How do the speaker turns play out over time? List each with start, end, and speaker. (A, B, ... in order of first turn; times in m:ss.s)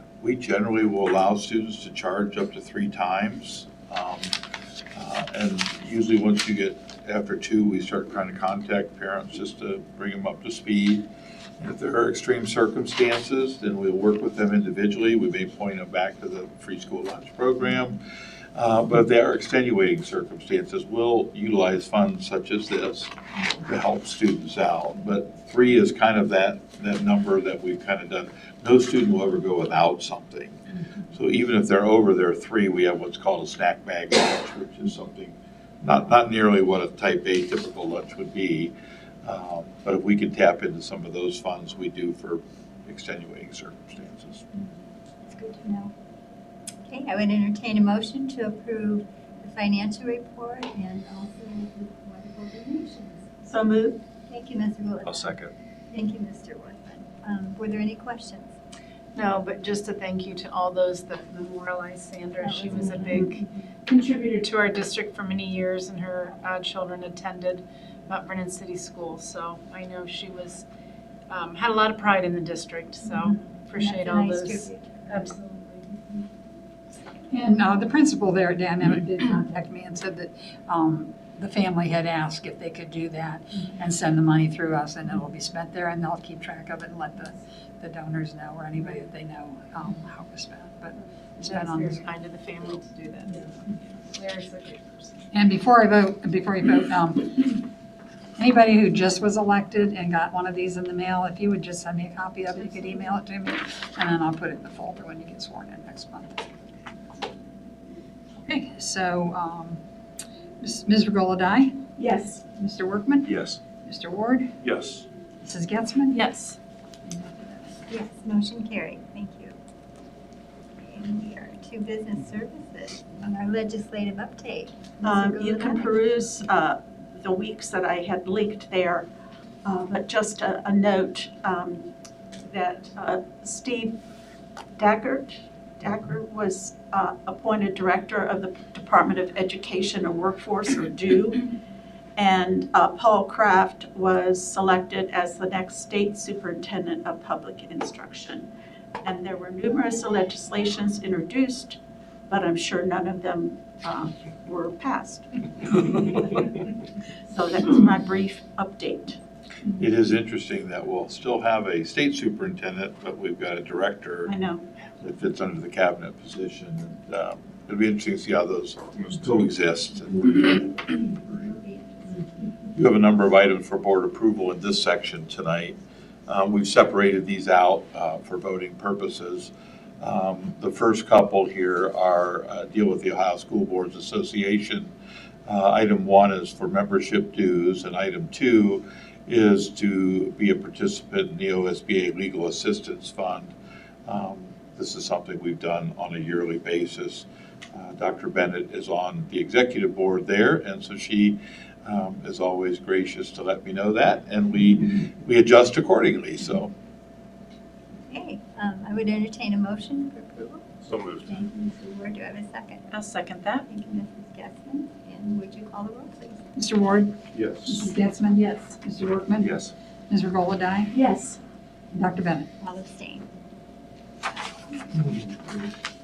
0:00.2-0:04.4 A
0:04.9-0:11.0 A
0:11.6-0:18.0 A
0:18.6-0:30.6 A
0:31.1-0:38.7 A
0:39.2-0:44.5 A
0:45.3-0:45.9 B
0:46.9-0:53.4 B
0:53.4-0:54.0 C
0:54.3-0:58.5 B
0:55.1-0:55.5 D
0:59.2-1:10.6 E
1:02.4-1:03.3 B
1:11.3-1:16.2 E
1:13.2-1:15.3 B
1:17.3-1:32.1 F
1:31.4-1:35.3 E
1:35.3-1:37.6 F
1:38.4-1:46.3 F
1:48.4-1:49.8 F
1:50.6-1:51.8 F
1:52.0-1:52.4 C
1:52.6-1:54.6 F
1:53.2-1:53.6 D
1:54.6-1:55.0 D
1:55.4-1:56.2 F
1:56.1-1:56.6 C
1:57.1-1:57.8 F
1:57.9-1:59.6 B
2:00.8-2:06.0 B
2:05.0-2:09.1 C
2:09.6-2:11.9 C
2:12.4-2:14.0 C
2:14.8-2:21.5 C
2:22.2-2:28.5 C
2:29.0-2:31.8 C
2:32.3-2:36.7 C
2:37.3-2:39.2 C
2:39.8-2:44.3 A
2:44.3-2:44.6 C
2:45.0-2:50.6 A
2:50.9-2:52.5 B
2:52.7-2:55.8 A
2:56.3-3:04.9 A
3:05.5-3:13.5 A
3:14.1-3:26.7 A
3:28.1-3:32.9 B
3:30.9-3:31.3 D
3:32.9-3:33.6 C
3:33.6-3:36.4 B
3:36.6-3:39.6 F
3:37.3-3:37.9 D
3:39.4-3:39.7 D
3:40.1-3:40.9 F
3:40.9-3:41.4 C
3:41.9-3:42.5 F
3:42.6-3:43.3 B
3:44.5-3:45.3 B